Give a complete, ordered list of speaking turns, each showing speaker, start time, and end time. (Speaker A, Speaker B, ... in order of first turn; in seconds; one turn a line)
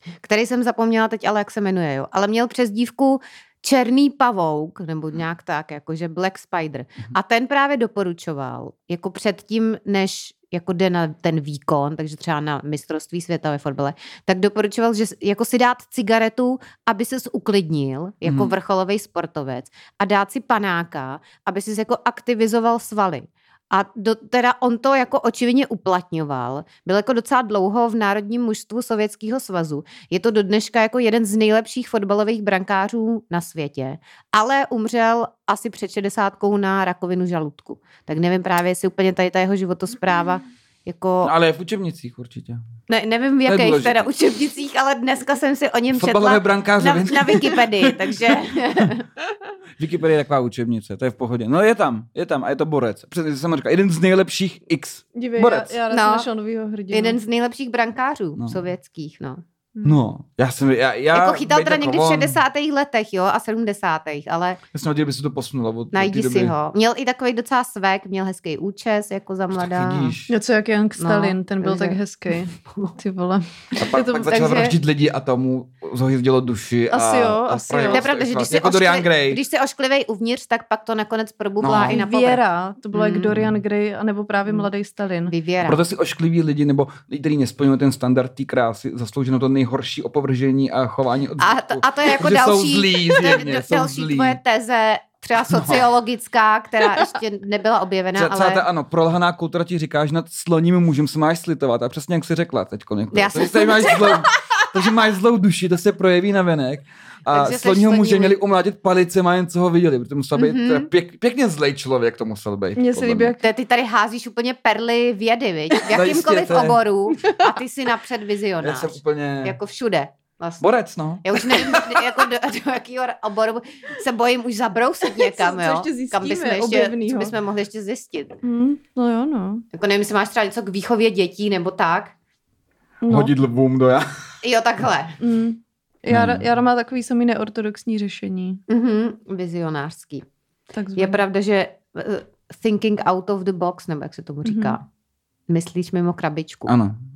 Speaker A: 0.2-41.3
Speaker B: 18.2-18.5
Speaker B: 41.2-42.6
Speaker A: 42.9-49.0
Speaker B: 43.5-44.0
Speaker B: 45.9-48.9
Speaker B: 49.8-55.8
Speaker C: 55.1-57.2
Speaker A: 55.9-56.3
Speaker A: 56.9-59.4
Speaker B: 58.4-58.6
Speaker B: 59.8-62.4
Speaker A: 61.1-64.6
Speaker B: 64.7-66.5
Speaker A: 65.9-70.1
Speaker B: 69.5-70.3
Speaker C: 70.3-74.7
Speaker A: 71.0-73.0
Speaker B: 73.8-79.4
Speaker A: 74.3-74.7
Speaker C: 76.9-78.0
Speaker A: 77.9-82.4
Speaker B: 81.6-82.0
Speaker C: 81.8-85.3
Speaker A: 82.9-83.3
Speaker B: 83.3-83.6
Speaker A: 85.3-85.8
Speaker B: 85.6-94.4
Speaker A: 91.4-98.6
Speaker B: 95.5-95.9
Speaker B: 98.1-113.3
Speaker A: 103.1-104.2
Speaker A: 107.3-108.4
Speaker A: 110.3-110.9
Speaker C: 112.8-113.4
Speaker A: 113.4-120.7
Speaker B: 115.9-116.8
Speaker C: 117.1-117.4
Speaker B: 118.6-119.6
Speaker B: 120.6-122.2
Speaker A: 121.2-128.4
Speaker C: 125.0-127.3
Speaker C: 128.4-129.6
Speaker A: 129.7-132.1
Speaker C: 133.0-133.3
Speaker B: 133.1-134.1
Speaker A: 134.4-135.2
Speaker C: 135.2-138.6
Speaker B: 136.1-136.4
Speaker A: 138.7-140.2
Speaker C: 140.7-141.2
Speaker A: 140.9-144.8
Speaker C: 144.4-144.8
Speaker A: 145.5-146.7
Speaker B: 146.7-147.0